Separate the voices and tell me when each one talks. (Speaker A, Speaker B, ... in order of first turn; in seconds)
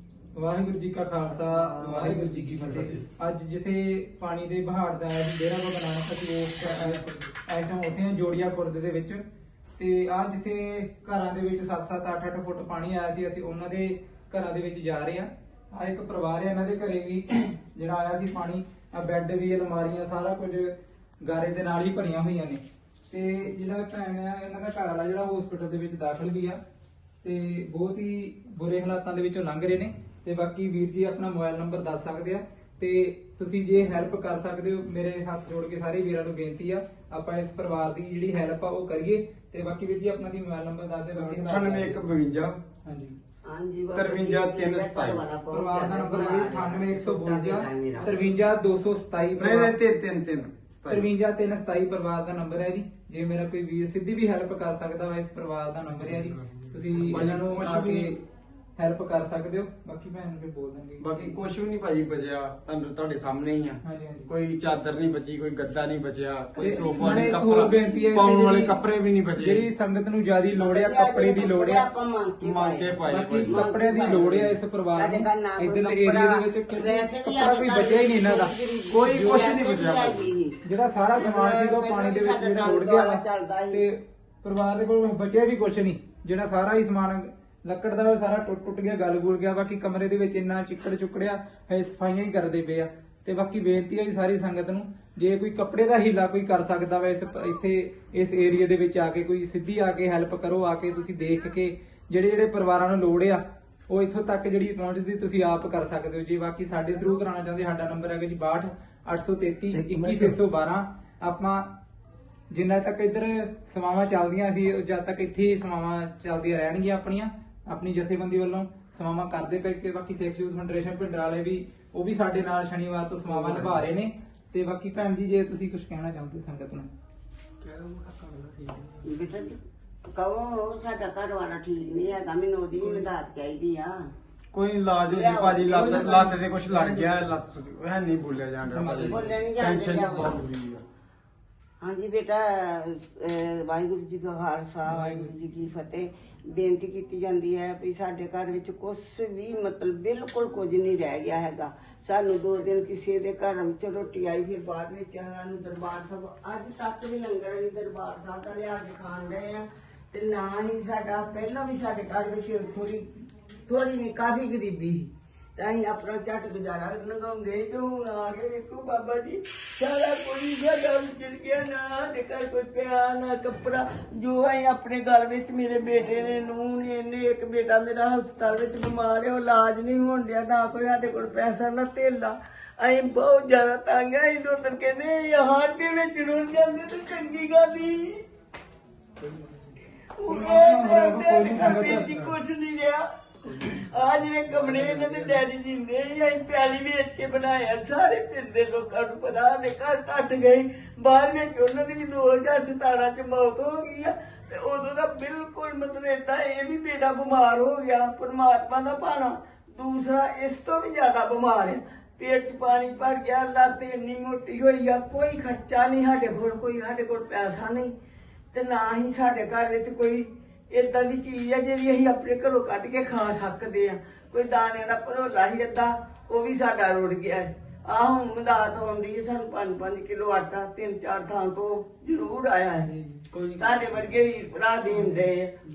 Speaker A: 0.3-9.2, 9.8-26.6, 27.2-42.1, 42.8-43.2, 45.5-49.7, 50.9-58.2, 58.8-61.4, 63.8-64.3, 66.6-68.8, 69.4-71.8, 73.1-78.5, 79.1-79.5, 80.6-111.7, 112.5-126.9, 135.7-137.2, 138.7-139.3, 144.9-145.3, 190.3-192.3, 232.9-234.1, 234.9-235.3
Speaker B: 1.8-3.0, 6.8-7.2, 41.1-42.6, 43.9-45.3, 49.4-51.1, 57.0-58.1, 61.0-69.7, 72.4-74.5, 78.9-80.3, 123.3-123.8, 127.6-129.1, 134.5-140.8, 193.4-193.8, 194.5-195.4
Speaker C: 43.5-48.2, 66.6-68.1, 70.6-80.6, 81.1-83.8, 129.0-129.6, 130.1-134.1, 135.1-136.3, 139.1-140.4, 141.8-163.1, 163.7-188.2, 190.2-217.9, 218.5-233.0, 233.6-235.6